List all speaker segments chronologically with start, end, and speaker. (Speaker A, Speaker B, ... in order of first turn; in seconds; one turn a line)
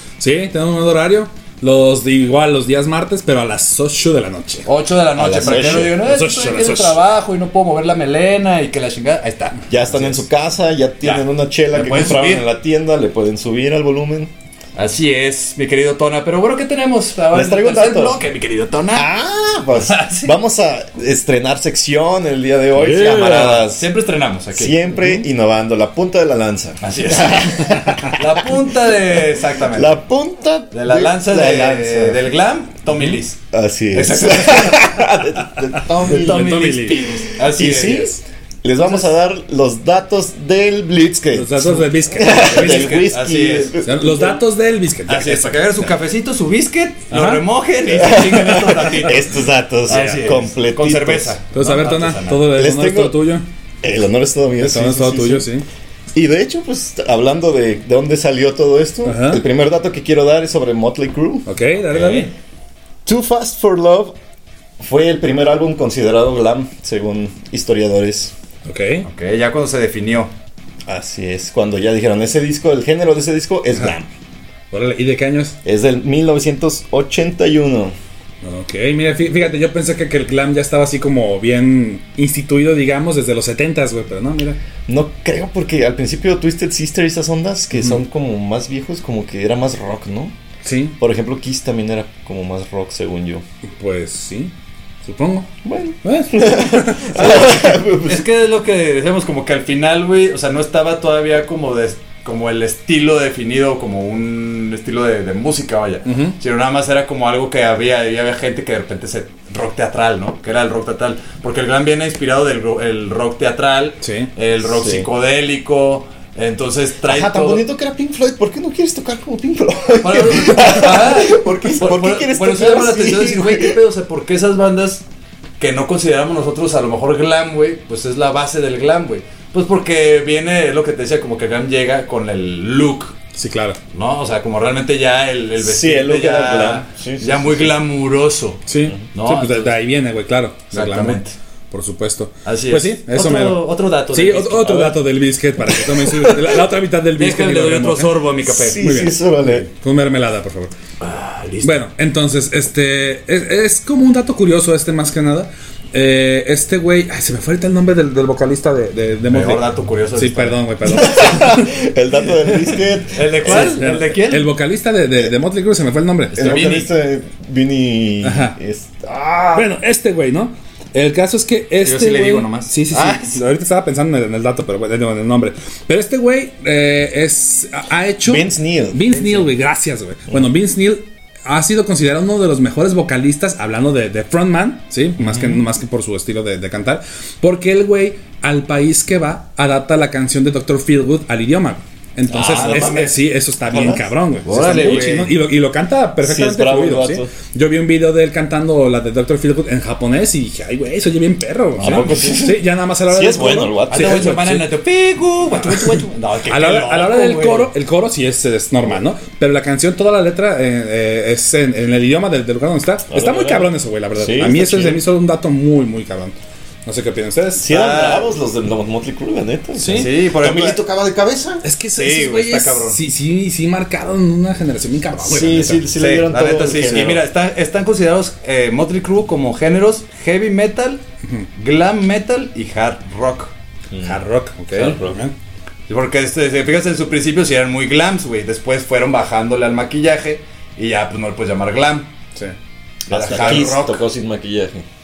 Speaker A: 0.2-4.7
Speaker B: 4.7-10.2
Speaker C: 5.2-6.0
Speaker A: 5.4-7.0
Speaker C: 9.7-14.3
Speaker B: 11.0-12.5
Speaker B: 14.8-19.1
Speaker C: 17.3-18.2
Speaker C: 18.9-23.9
Speaker B: 19.7-20.4
Speaker B: 22.8-25.2
Speaker C: 24.5-28.5
Speaker B: 26.8-30.0
Speaker C: 29.7-32.3
Speaker B: 30.7-33.4
Speaker C: 33.5-36.7
Speaker B: 33.9-34.9
Speaker B: 35.9-38.2
Speaker A: 36.0-37.1
Speaker C: 37.4-44.4
Speaker B: 38.8-39.1
Speaker A: 41.3-43.0
Speaker B: 42.2-43.8
Speaker A: 43.8-45.9
Speaker B: 45.1-49.3
Speaker A: 47.1-47.4
Speaker C: 47.9-51.4
Speaker B: 49.9-52.5
Speaker A: 51.5-53.5
Speaker C: 52.5-53.3
Speaker C: 53.8-55.5
Speaker A: 54.6-55.6
Speaker C: 56.1-61.5
Speaker A: 59.0-59.4
Speaker A: 61.5-62.3
Speaker B: 61.9-62.3
Speaker C: 63.0-64.2
Speaker C: 64.8-68.3
Speaker A: 68.7-69.1
Speaker B: 69.0-70.3
Speaker C: 70.9-74.1
Speaker A: 74.7-75.5
Speaker C: 75.6-78.0
Speaker A: 78.4-84.6
Speaker C: 84.9-90.3
Speaker A: 87.8-88.0
Speaker A: 90.6-91.0
Speaker C: 91.0-93.4
Speaker A: 93.8-95.5
Speaker C: 95.6-98.3
Speaker A: 96.0-97.3
Speaker B: 97.2-117.6
Speaker A: 106.1-106.4
Speaker A: 114.0-114.3
Speaker C: 114.7-115.1
Speaker C: 117.1-123.8
Speaker B: 120.0-125.0
Speaker B: 125.6-133.2
Speaker A: 133.3-133.8
Speaker B: 133.9-139.8
Speaker C: 135.6-137.8
Speaker A: 138.7-148.2
Speaker B: 140.7-141.3
Speaker B: 142.4-145.0
Speaker C: 145.9-146.4
Speaker B: 147.2-148.8
Speaker C: 148.4-149.7
Speaker A: 148.8-150.7
Speaker B: 151.0-151.9
Speaker A: 151.6-159.6
Speaker B: 159.3-160.6
Speaker A: 160.2-161.7
Speaker C: 160.8-163.8
Speaker B: 163.1-164.5
Speaker A: 163.5-166.7
Speaker B: 166.3-166.9
Speaker C: 166.4-169.7
Speaker A: 168.2-168.6
Speaker A: 169.5-204.7
Speaker B: 171.8-173.4
Speaker C: 178.2-179.5
Speaker C: 185.2-185.6
Speaker C: 192.3-193.1
Speaker B: 192.3-193.2
Speaker C: 193.7-195.2
Speaker B: 194.5-195.3
Speaker C: 196.2-197.3
Speaker C: 201.8-204.4
Speaker B: 201.8-202.6
Speaker B: 203.9-207.7
Speaker A: 205.7-206.0
Speaker A: 206.5-217.7
Speaker C: 213.1-215.1
Speaker C: 217.6-221.7
Speaker B: 217.7-218.3
Speaker A: 219.8-220.1
Speaker B: 219.9-220.8
Speaker A: 221.6-225.8
Speaker B: 222.0-223.0
Speaker C: 225.2-227.2
Speaker B: 225.9-231.0
Speaker B: 231.6-233.5
Speaker C: 233.9-234.2
Speaker A: 234.0-235.3
Speaker B: 234.7-235.0
Speaker C: 234.8-235.2
Speaker B: 235.9-242.1
Speaker C: 243.1-244.9
Speaker B: 243.1-244.1